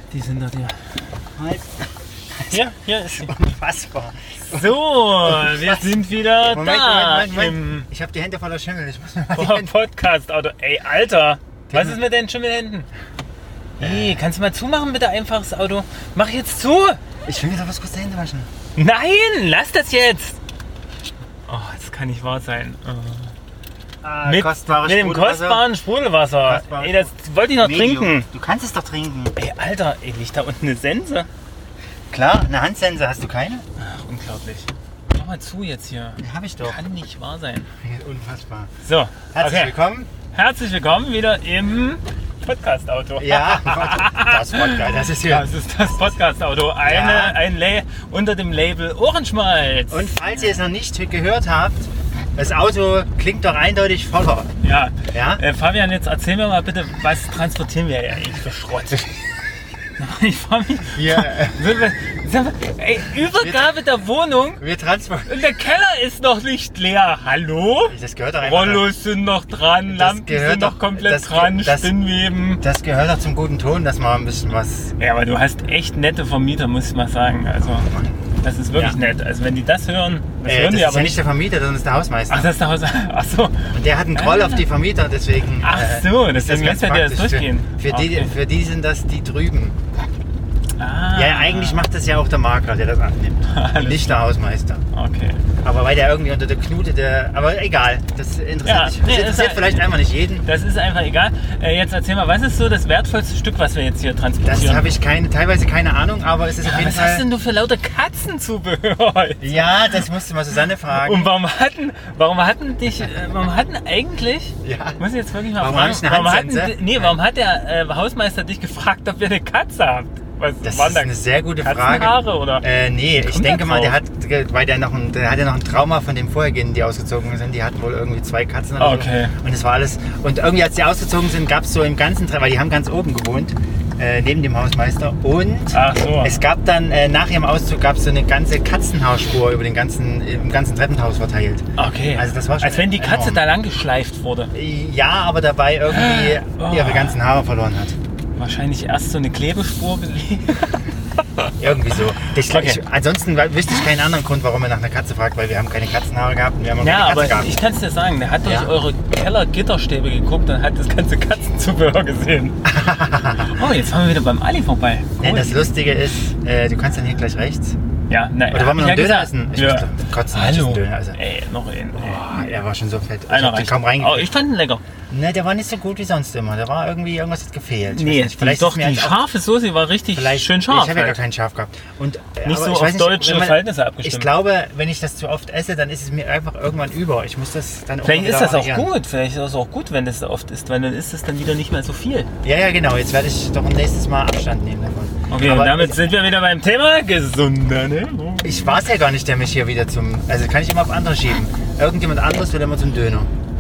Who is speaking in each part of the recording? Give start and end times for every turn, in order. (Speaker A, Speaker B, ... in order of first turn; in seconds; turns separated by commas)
Speaker A: 0.1-0.8, Speaker B: 1.4-1.8, Speaker B: 2.4-9.8, Speaker A: 2.5-3.4, Speaker A: 4.5-7.9, Speaker A: 9.3-12.9, Speaker B: 11.7-12.1, Speaker A: 13.8-17.0, Speaker B: 13.8-14.3, Speaker B: 17.3-18.5, Speaker A: 18.7-20.4, Speaker A: 21.5-23.3, Speaker B: 24.0-25.7, Speaker A: 24.2-28.3, Speaker B: 26.4-29.4, Speaker A: 29.4-31.3, Speaker B: 32.1-33.6, Speaker A: 33.8-37.7, Speaker B: 36.2-36.8, Speaker B: 37.7-38.7, Speaker A: 38.8-39.8, Speaker B: 39.2-40.1, Speaker A: 40.3-50.7, Speaker B: 43.2-46.2, Speaker B: 46.8-47.4, Speaker B: 49.9-54.5, Speaker A: 54.6-59.1, Speaker B: 55.0-55.4, Speaker A: 60.0-64.6, Speaker B: 60.9-61.6, Speaker B: 63.2-63.8, Speaker B: 64.6-65.5, Speaker A: 65.3-72.6, Speaker B: 67.9-68.9, Speaker B: 69.9-72.0, Speaker B: 72.6-75.0, Speaker A: 75.0-77.9, Speaker B: 77.7-79.0, Speaker A: 78.4-81.3, Speaker B: 80.4-82.5, Speaker A: 82.3-84.7, Speaker B: 83.7-89.8, Speaker A: 85.6-88.3, Speaker A: 90.8-91.9, Speaker B: 91.1-94.8, Speaker A: 93.5-94.3, Speaker A: 94.9-95.5, Speaker B: 95.5-100.5, Speaker A: 98.6-105.0, Speaker B: 104.4-107.3, Speaker A: 106.6-110.1, Speaker B: 109.4-111.3, Speaker A: 110.8-122.7, Speaker B: 114.6-115.0, Speaker B: 115.5-117.1, Speaker B: 120.6-143.4, Speaker A: 123.2-124.0, Speaker A: 128.8-129.3, Speaker A: 135.7-136.4, Speaker A: 141.8-144.5, Speaker B: 144.5-148.0, Speaker A: 145.9-147.2, Speaker A: 148.4-150.8, Speaker B: 151.6-157.6, Speaker A: 152.4-152.8, Speaker A: 156.8-162.6, Speaker B: 158.4-158.7, Speaker B: 162.7-163.6, Speaker A: 163.4-165.6, Speaker B: 165.2-167.8, Speaker A: 168.1-172.6, Speaker B: 168.5-171.2, Speaker B: 171.9-174.3, Speaker A: 173.3-174.9, Speaker B: 175.0-179.3, Speaker A: 177.9-181.2, Speaker B: 180.1-188.9, Speaker A: 182.4-184.4, Speaker A: 188.0-192.3, Speaker B: 192.4-196.1, Speaker A: 195.3-198.9, Speaker B: 198.4-203.3